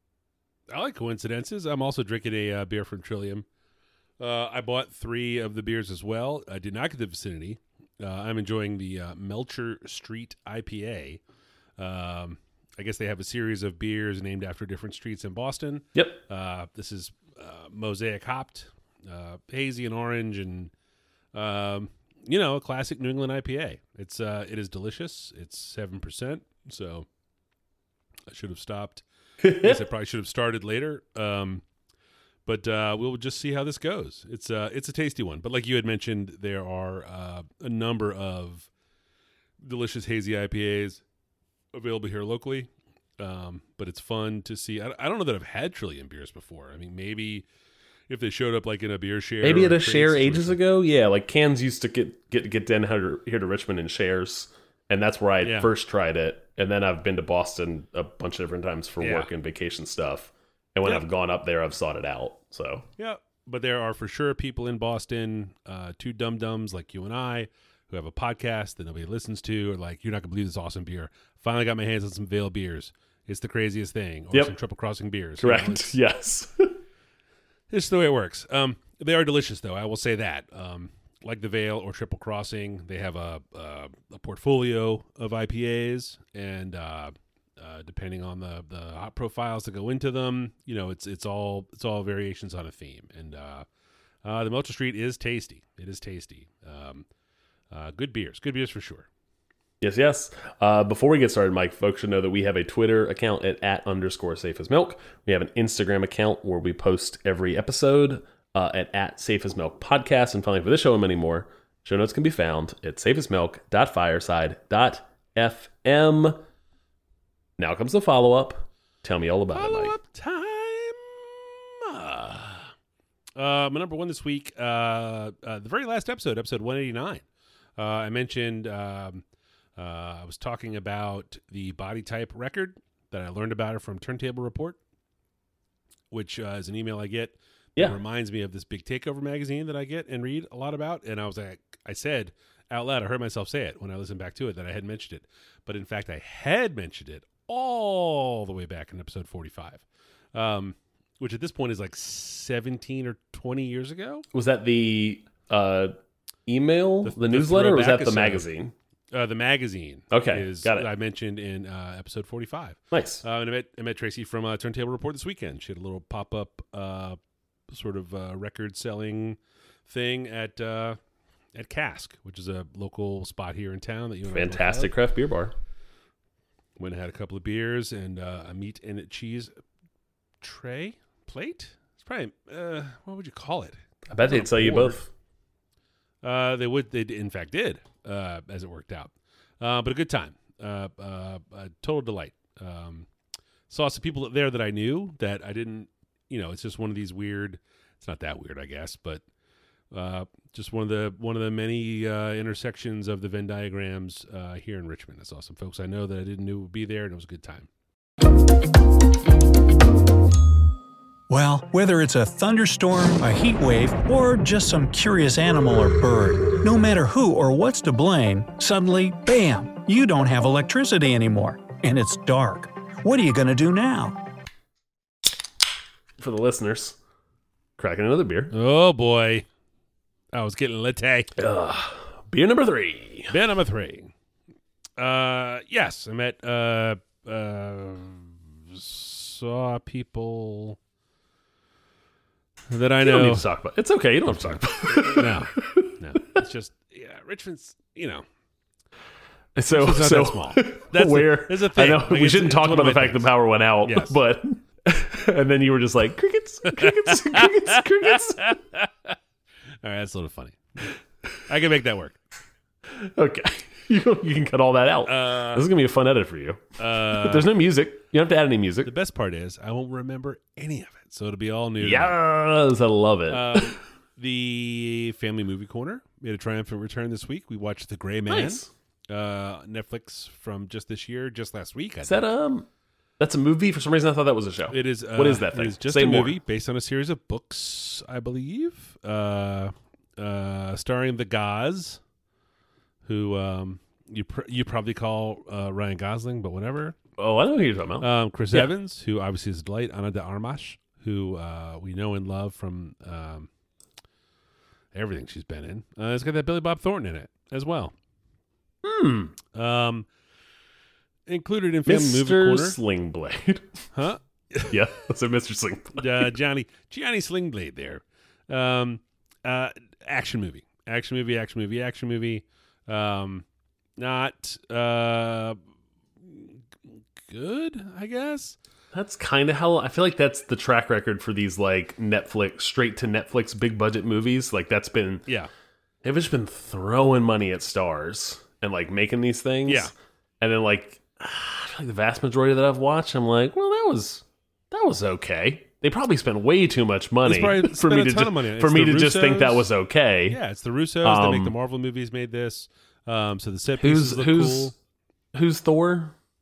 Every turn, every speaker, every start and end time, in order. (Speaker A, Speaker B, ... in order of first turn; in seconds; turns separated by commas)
Speaker A: 0.7-3.4, Speaker A: 4.2-11.2, Speaker A: 11.8-20.7, Speaker A: 21.3-27.1, Speaker A: 28.3-31.6, Speaker B: 29.4-29.8, Speaker A: 32.5-38.7, Speaker A: 39.6-41.0, Speaker A: 41.7-42.7, Speaker A: 43.2-47.5, Speaker A: 48.1-50.6, Speaker B: 49.4-62.8, Speaker A: 55.4-55.7, Speaker A: 59.0-59.3, Speaker A: 63.0-76.0, Speaker B: 75.4-76.7, Speaker A: 77.7-93.7, Speaker A: 94.2-97.0, Speaker A: 97.7-99.1, Speaker B: 99.8-116.4, Speaker B: 117.6-119.9, Speaker A: 119.5-122.7, Speaker A: 123.3-127.2, Speaker A: 127.8-129.2, Speaker A: 129.8-134.8, Speaker A: 136.1-149.8, Speaker A: 150.3-154.2, Speaker B: 154.3-155.9, Speaker B: 156.5-158.7, Speaker A: 157.0-158.4, Speaker A: 159.1-167.2, Speaker B: 160.1-160.9, Speaker B: 162.9-163.2, Speaker A: 167.7-169.4, Speaker A: 169.9-171.0, Speaker A: 171.5-174.9, Speaker B: 174.3-175.5, Speaker A: 176.8-179.5, Speaker A: 180.4-185.0, Speaker B: 184.1-185.1, Speaker A: 186.2-193.1, Speaker A: 193.7-199.2, Speaker A: 199.9-207.7, Speaker C: 211.3-224.2, Speaker B: 226.2-227.0, Speaker B: 227.8-228.5, Speaker A: 228.5-229.4, Speaker A: 230.3-231.3, Speaker B: 231.4-233.3, Speaker A: 233.3-234.1, Speaker A: 235.0-240.8, Speaker A: 242.7-243.4, Speaker B: 243.0-245.9, Speaker A: 244.3-248.2, Speaker B: 249.6-258.4, Speaker A: 249.7-253.3, Speaker A: 253.8-254.2, Speaker A: 256.7-257.5, Speaker A: 258.1-259.1, Speaker A: 259.8-260.9, Speaker A: 261.5-262.1, Speaker B: 262.9-268.9, Speaker A: 265.1-265.6, Speaker A: 266.8-267.5, Speaker A: 268.9-272.1, Speaker B: 271.8-273.8, Speaker A: 273.3-282.2, Speaker B: 278.3-278.7, Speaker B: 282.0-282.7, Speaker B: 283.2-286.3, Speaker A: 284.7-292.0, Speaker A: 293.0-297.0, Speaker B: 297.2-298.7, Speaker A: 298.0-303.5, Speaker A: 304.9-307.9, Speaker B: 308.8-309.3, Speaker A: 309.5-310.1, Speaker A: 311.3-312.8, Speaker B: 311.9-313.8, Speaker A: 313.9-314.7, Speaker B: 314.7-316.3, Speaker A: 316.0-323.4, Speaker A: 324.0-325.6, Speaker A: 326.2-328.6, Speaker B: 328.9-335.2, Speaker B: 336.0-350.4, Speaker A: 339.7-339.9, Speaker A: 347.2-349.7, Speaker A: 350.3-354.7, Speaker B: 351.0-351.5, Speaker B: 353.8-354.7, Speaker B: 355.3-356.1